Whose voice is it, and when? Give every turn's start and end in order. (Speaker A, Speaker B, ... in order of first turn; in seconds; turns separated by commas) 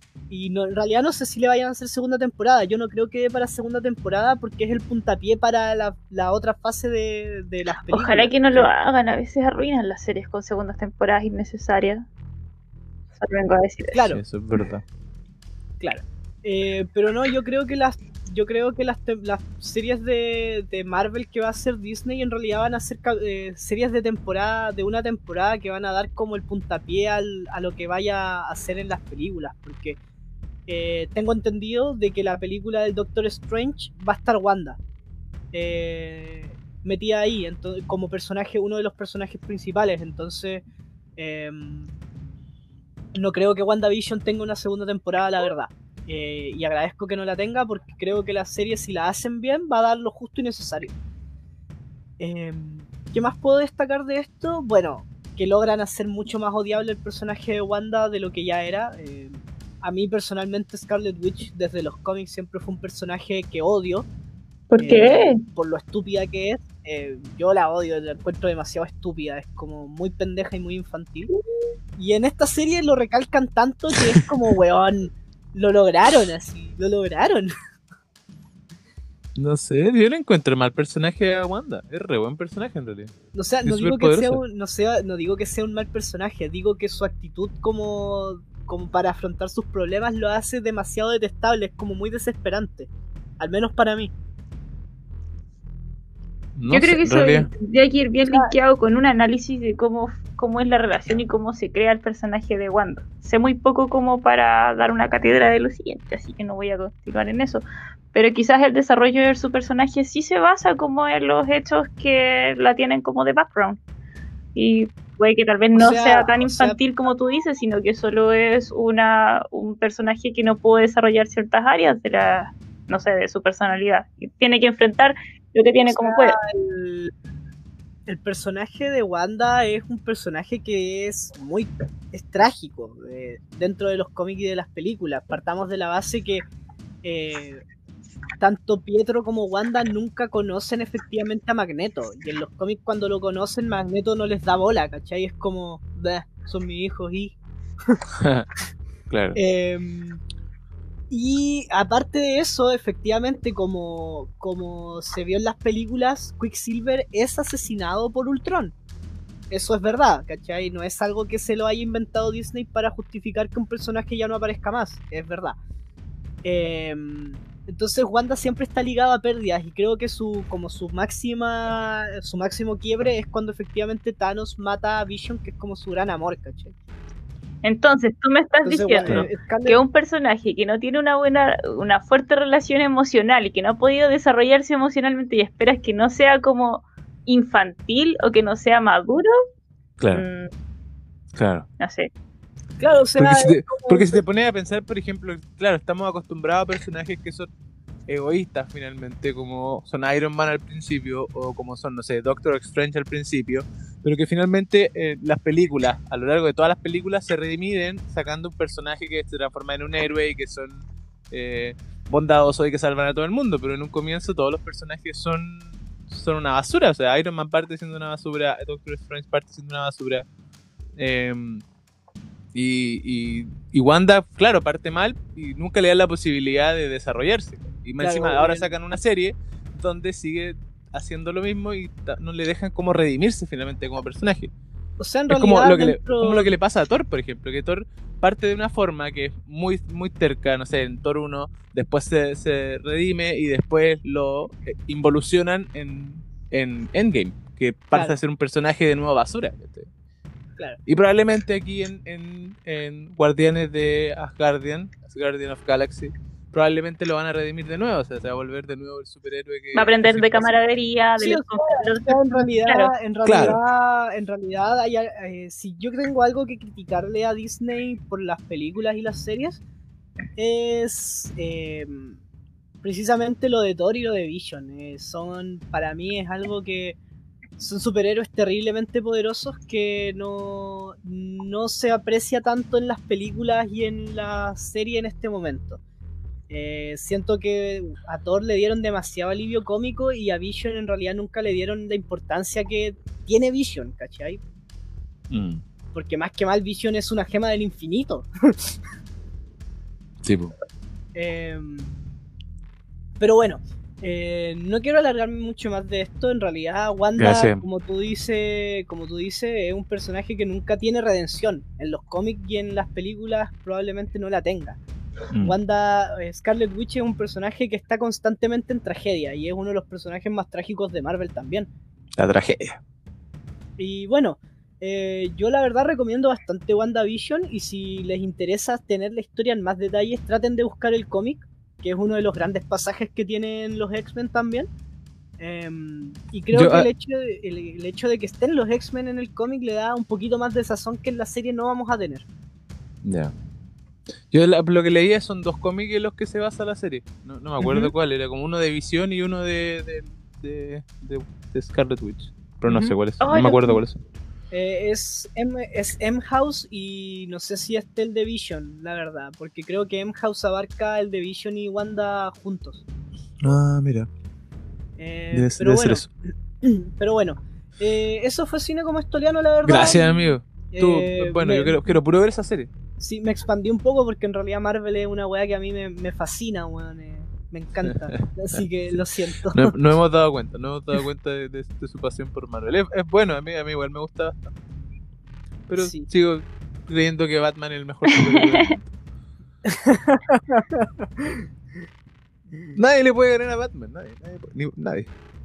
Speaker A: 0.3-8.7, Speaker B: 7.9-12.1, Speaker B: 13.2-14.0, Speaker A: 13.9-14.2, Speaker C: 14.1-14.8, Speaker A: 15.8-30.0, Speaker A: 30.7-34.8, Speaker A: 35.5-40.6, Speaker A: 41.2-41.9, Speaker A: 43.1-50.9, Speaker A: 52.2-64.1, Speaker B: 64.7-65.4, Speaker A: 64.8-71.3, Speaker A: 72.0-77.5, Speaker C: 79.4-84.4, Speaker A: 83.3-94.1, Speaker C: 96.5-97.5, Speaker B: 96.7-113.8, Speaker A: 98.2-98.5, Speaker B: 114.5-126.4, Speaker A: 115.7-116.8, Speaker A: 125.9-127.1, Speaker A: 128.1-136.4, Speaker A: 137.0-137.6, Speaker A: 138.4-147.3, Speaker C: 148.1-148.5, Speaker C: 149.1-149.4, Speaker A: 149.3-150.2, Speaker A: 151.1-158.7, Speaker A: 159.5-165.6, Speaker A: 166.4-176.7, Speaker B: 177.6-189.3, Speaker A: 178.6-179.8, Speaker C: 190.0-190.2, Speaker B: 190.1-190.5, Speaker C: 191.3-191.7, Speaker B: 191.8-192.1, Speaker A: 192.8-194.2, Speaker C: 193.2-197.5, Speaker C: 198.1-220.2, Speaker C: 221.0-221.6, Speaker C: 222.5-234.5, Speaker A: 228.0-228.7, Speaker A: 235.0-236.5, Speaker C: 235.3-249.9, Speaker A: 247.9-248.2, Speaker C: 250.9-260.5, Speaker B: 259.7-262.9, Speaker A: 261.2-269.6, Speaker C: 263.2-263.6, Speaker A: 270.4-272.2, Speaker A: 272.8-277.0, Speaker A: 277.6-285.8, Speaker A: 286.5-294.4, Speaker C: 295.3-295.6, Speaker A: 295.9-298.7, Speaker C: 300.2-300.5, Speaker A: 301.1-301.9, Speaker A: 303.2-314.8, Speaker C: 307.2-307.6, Speaker C: 315.3-315.6, Speaker A: 315.4-321.7, Speaker C: 322.2-322.8, Speaker A: 323.8-334.7, Speaker A: 335.4-342.2, Speaker C: 336.5-336.9, Speaker C: 343.0-343.3, Speaker C: 344.3-354.0, Speaker A: 347.6-347.9, Speaker A: 352.6-353.0, Speaker B: 353.2-353.8, Speaker A: 354.5-362.8, Speaker C: 363.4-364.1, Speaker A: 365.0-366.1, Speaker C: 365.3-366.1, Speaker A: 366.6-371.9, Speaker C: 369.6-372.7, Speaker A: 373.0-379.8, Speaker C: 377.8-379.0, Speaker C: 379.5-384.5, Speaker C: 385.7-388.8, Speaker A: 385.8-386.1, Speaker B: 388.1-388.7, Speaker A: 389.6-391.5, Speaker A: 392.5-392.8, Speaker C: 392.8-395.1